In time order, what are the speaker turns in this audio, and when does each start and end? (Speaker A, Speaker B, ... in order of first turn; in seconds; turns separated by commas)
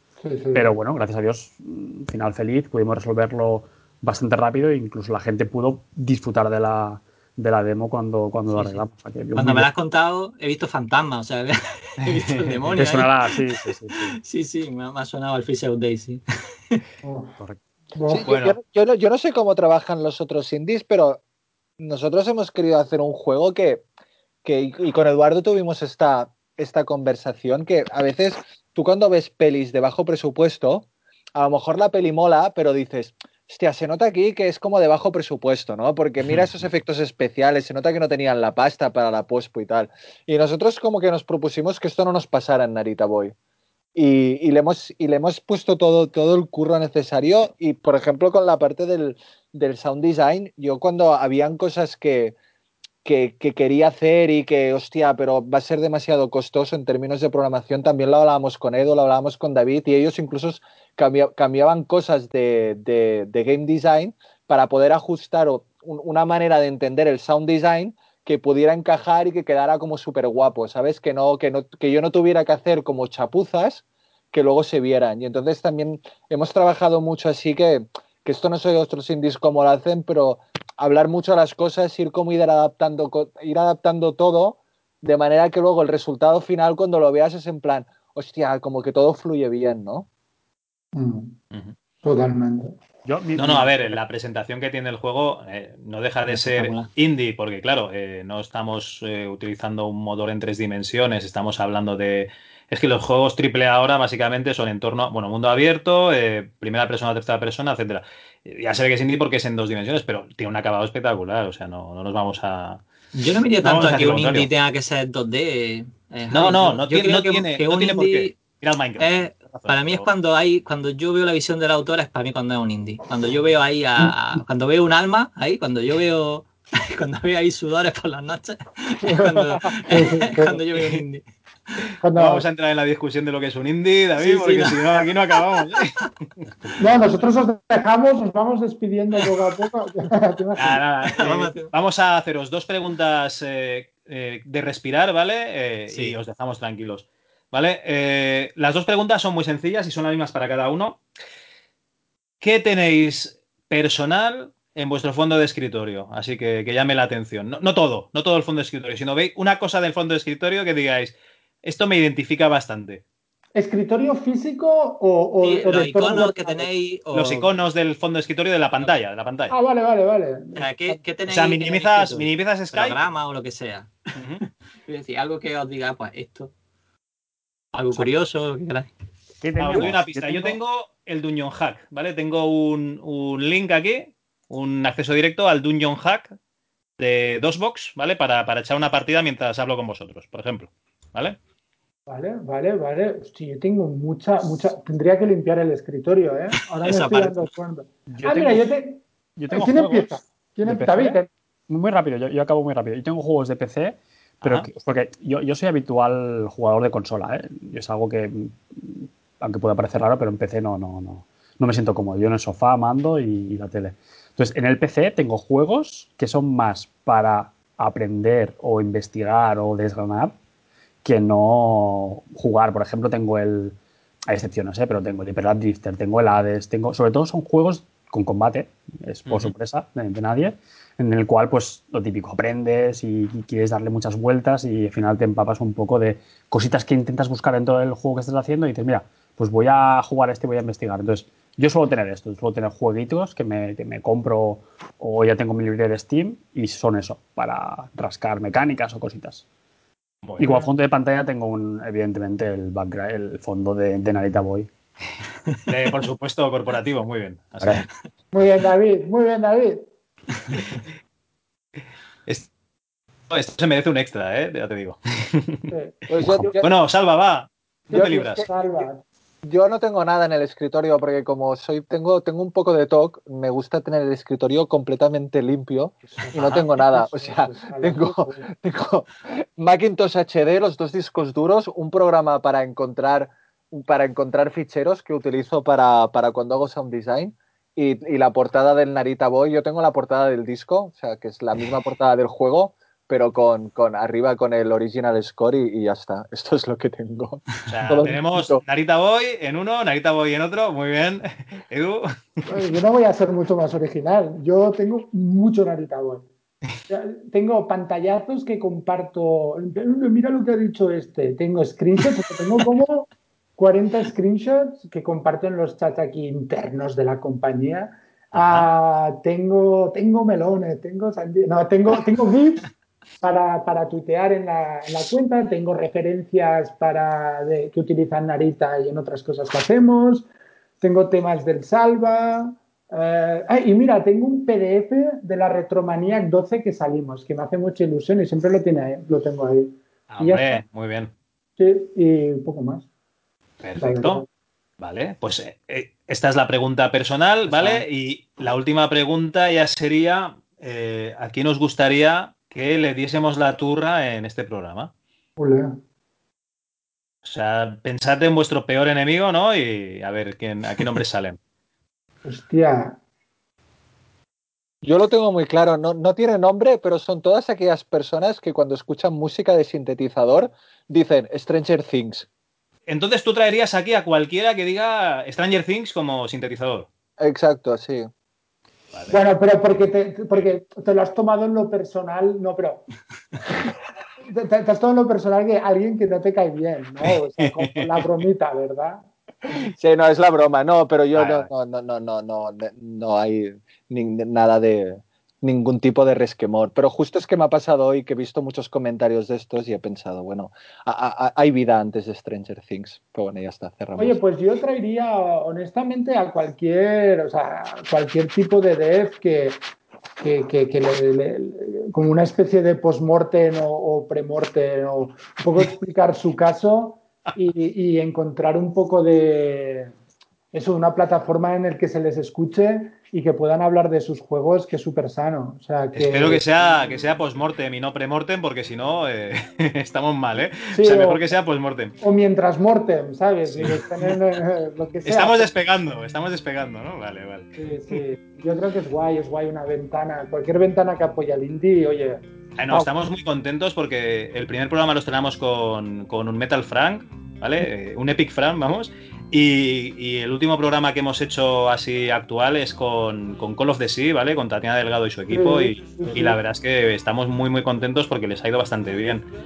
Speaker A: 0.2-0.7, Speaker B: 0.5-9.7, Speaker C: 9.3-13.3, Speaker B: 12.8-14.2, Speaker C: 14.0-16.8, Speaker A: 17.0-17.4, Speaker A: 17.9-18.3, Speaker D: 18.1-21.2, Speaker E: 18.3-18.6, Speaker D: 21.8-23.9, Speaker D: 24.4-43.3, Speaker D: 44.0-52.4, Speaker D: 53.0-90.1, Speaker A: 91.0-91.4, Speaker A: 92.0-92.8, Speaker B: 93.1-93.9, Speaker E: 93.4-112.8, Speaker C: 96.3-96.9, Speaker C: 113.2-118.4, Speaker E: 113.6-114.5, Speaker E: 116.3-120.1, Speaker C: 119.0-131.8, Speaker A: 129.9-130.6, Speaker A: 132.0-132.4, Speaker E: 132.2-135.9, Speaker C: 134.2-136.1, Speaker A: 136.8-140.8, Speaker E: 140.6-151.0, Speaker C: 141.1-141.7, Speaker C: 145.9-146.2, Speaker E: 152.4-163.0, Speaker A: 163.6-166.7, Speaker C: 165.4-167.5, Speaker E: 167.1-169.6, Speaker A: 169.5-171.0, Speaker C: 170.6-173.9, Speaker E: 171.3-173.0, Speaker E: 174.2-174.4, Speaker C: 174.9-176.5, Speaker C: 177.7-178.9, Speaker B: 179.4-180.6, Speaker E: 179.6-186.3, Speaker E: 187.0-191.4, Speaker A: 192.1-201.3, Speaker C: 196.8-197.5, Speaker B: 198.1-198.7, Speaker B: 199.4-220.3, Speaker E: 204.4-204.7, Speaker B: 221.0-223.8, Speaker B: 224.3-249.4, Speaker E: 229.3-229.5, Speaker E: 250.2-250.6, Speaker B: 250.4-254.7, Speaker E: 255.7-257.9, Speaker B: 257.6-257.9, Speaker A: 258.3-259.9, Speaker E: 263.3-265.7, Speaker A: 265.7-266.6, Speaker D: 266.1-266.7, Speaker B: 266.2-266.5, Speaker E: 266.6-268.4, Speaker A: 267.9-269.0, Speaker D: 267.9-268.9, Speaker D: 269.4-298.6, Speaker A: 276.1-278.4, Speaker E: 297.7-302.4, Speaker A: 302.5-306.3, Speaker A: 306.9-330.3, Speaker E: 318.3-318.7, Speaker A: 330.8-340.6, Speaker E: 340.1-341.1, Speaker A: 341.6-342.9, Speaker E: 343.6-344.2, Speaker A: 343.8-344.3, Speaker E: 344.8-354.9, Speaker A: 355.4-355.8, Speaker E: 357.2-361.4, Speaker A: 362.2-363.0, Speaker D: 364.8-372.3, Speaker E: 372.9-376.9, Speaker D: 377.2-378.1, Speaker A: 379.1-382.8, Speaker A: 384.2-389.1, Speaker E: 387.0-388.2, Speaker D: 389.5-404.2, Speaker E: 391.1-391.5, Speaker A: 404.0-409.6, Speaker A: 410.2-419.9, Speaker A: 420.5-426.4, Speaker E: 426.0-431.9, Speaker A: 430.7-431.2, Speaker A: 432.0-435.5, Speaker E: 433.5-434.2, Speaker E: 435.1-438.0, Speaker A: 437.6-442.9, Speaker E: 442.6-459.3, Speaker A: 455.3-456.4